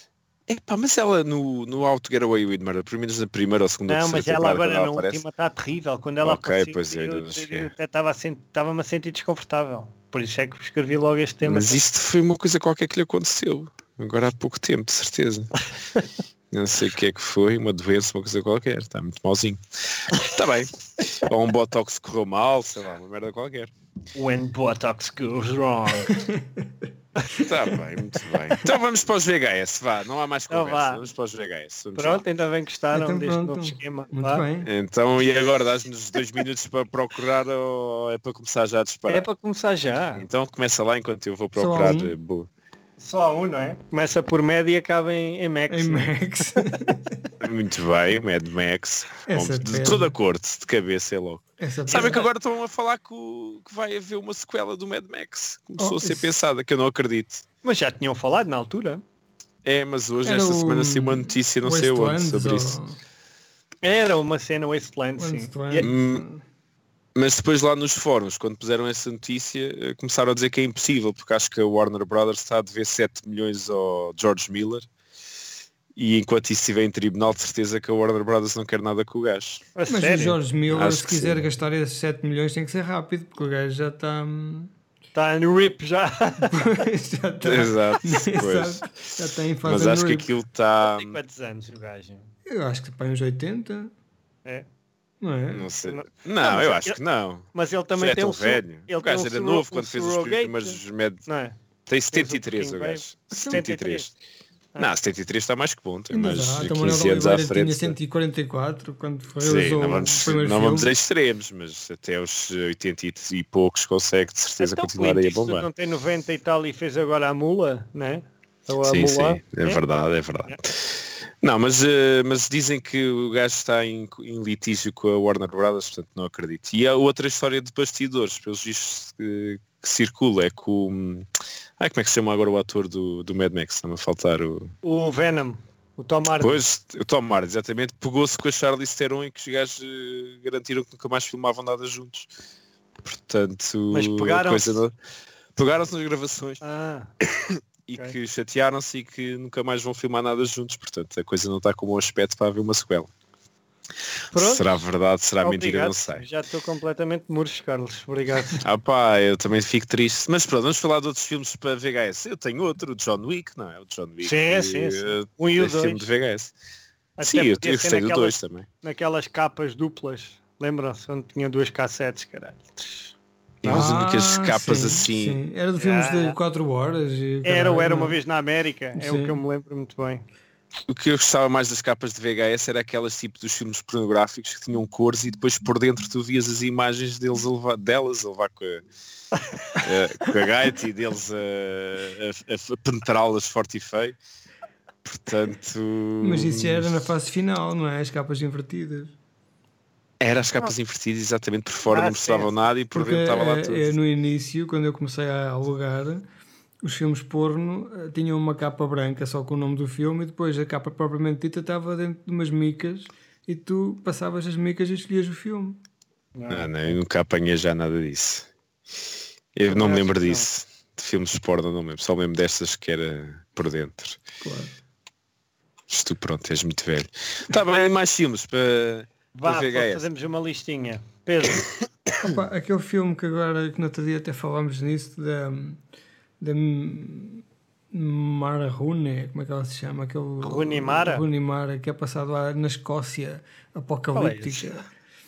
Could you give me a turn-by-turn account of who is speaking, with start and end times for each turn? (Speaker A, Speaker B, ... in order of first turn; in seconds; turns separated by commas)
Speaker A: 0.5-5.2, Speaker B: 3.9-11.8, Speaker A: 6.2-7.7, Speaker A: 11.4-15.5, Speaker A: 16.5-23.7, Speaker B: 24.1-26.2, Speaker C: 26.1-26.5, Speaker A: 27.4-32.2, Speaker B: 30.5-31.0, Speaker B: 32.0-34.4, Speaker C: 32.9-34.7, Speaker A: 34.6-39.3, Speaker B: 39.1-40.2, Speaker A: 40.2-42.5, Speaker C: 41.6-42.1, Speaker B: 43.0-46.1, Speaker C: 45.7-47.2, Speaker A: 47.4-57.4, Speaker C: 49.3-50.1, Speaker C: 51.6-52.2, Speaker B: 51.9-52.3, Speaker C: 55.8-56.3, Speaker B: 57.6-59.0, Speaker A: 59.6-62.8, Speaker C: 60.2-63.0, Speaker B: 63.8-65.9, Speaker C: 65.2-66.4, Speaker A: 65.8-66.2, Speaker A: 67.2-74.9, Speaker A: 76.0-79.6, Speaker B: 79.8-80.4, Speaker C: 79.9-84.7, Speaker A: 80.7-81.4, Speaker B: 85.1-86.6, Speaker C: 86.5-90.3, Speaker A: 87.4-88.9, Speaker A: 89.6-91.2, Speaker B: 90.8-92.2, Speaker C: 92.5-93.9, Speaker C: 95.2-95.7, Speaker A: 95.5-101.2, Speaker B: 95.8-97.0, Speaker B: 97.5-101.6, Speaker A: 101.9-104.1, Speaker B: 102.1-104.1, Speaker C: 103.3-103.6, Speaker A: 104.8-108.0, Speaker C: 106.1-110.9, Speaker A: 109.4-115.7, Speaker B: 114.6-119.8, Speaker A: 118.8-134.7, Speaker B: 134.8-136.6, Speaker A: 136.4-142.3, Speaker A: 143.0-144.9, Speaker B: 143.9-144.8, Speaker A: 145.6-146.6, Speaker B: 146.6-147.1, Speaker A: 147.2-153.1, Speaker B: 154.3-154.8, Speaker A: 154.3-156.2, Speaker B: 155.4-158.6, Speaker A: 158.6-166.5, Speaker B: 164.2-166.1, Speaker B: 167.2-173.9, Speaker A: 167.2-168.7, Speaker A: 173.6-175.4, Speaker C: 173.7-178.2, Speaker B: 175.8-176.4, Speaker B: 177.4-180.2, Speaker C: 179.0-179.4, Speaker A: 180.9-188.8, Speaker B: 189.4-189.8, Speaker A: 189.8-194.2, Speaker A: 195.1-196.9, Speaker C: 196.2-199.1, Speaker A: 200.2-203.9, Speaker B: 201.9-202.5, Speaker C: 202.9-206.2, Speaker C: 206.8-215.8, Speaker B: 216.4-216.9, Speaker A: 216.5-218.5, Speaker A: 219.5-224.2, Speaker B: 219.7-220.5, Speaker C: 224.4-224.7, Speaker A: 225.9-230.1, Speaker B: 229.3-231.7, Speaker C: 232.2-235.8, Speaker C: 236.4-244.8, Speaker B: 240.4-241.2, Speaker B: 244.1-244.8